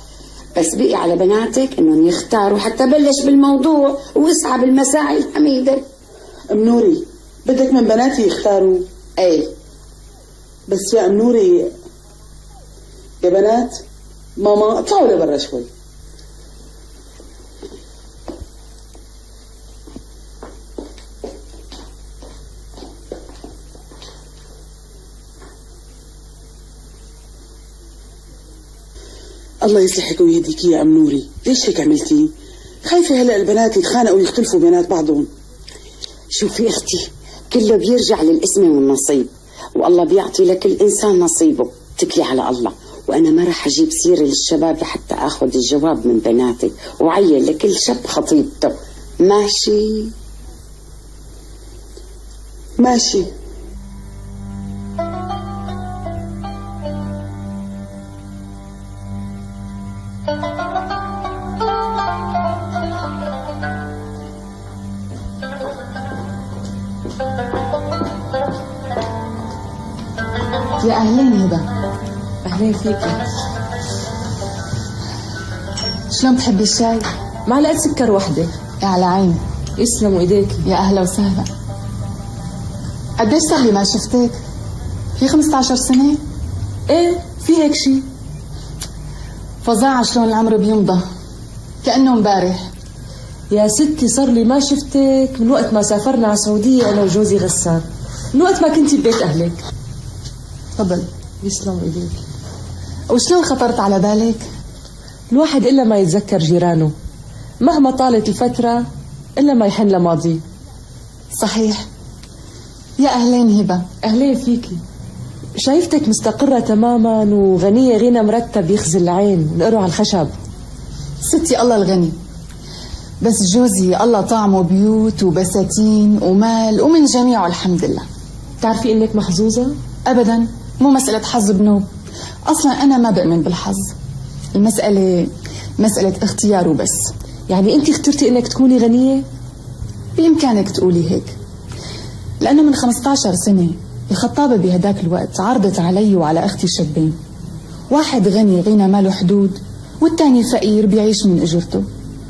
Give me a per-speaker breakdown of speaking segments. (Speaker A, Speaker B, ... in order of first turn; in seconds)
Speaker A: 0.6-5.8, 9.2-9.5, 36.3-50.1
Speaker B: 6.5-8.9, 10.7-11.7, 13.2-13.8, 14.4-15.7, 29.6-32.3, 32.9-35.3, 52.8-53.3
Speaker C: 70.8-71.7, 76.1-77.1, 78.8-79.4, 80.6-81.5, 83.2-84.4, 85.2-86.2, 89.6-91.0, 91.8-92.7, 100.8-101.1, 103.1-104.5, 111.4-111.9, 113.0-113.9, 121.2-122.2, 123.2-128.1, 130.1-131.9, 132.5-133.9, 134.5-137.1, 140.2-141.3, 142.4-147.2, 147.9-151.9
Speaker D: 72.5-73.2, 77.5-78.5, 79.8-80.6, 86.9-88.0, 93.5-99.6, 101.4-102.2, 105.3-106.9, 107.6-108.9, 109.4-110.4, 114.0-114.8, 115.6-120.3, 128.6-129.8, 137.5-139.3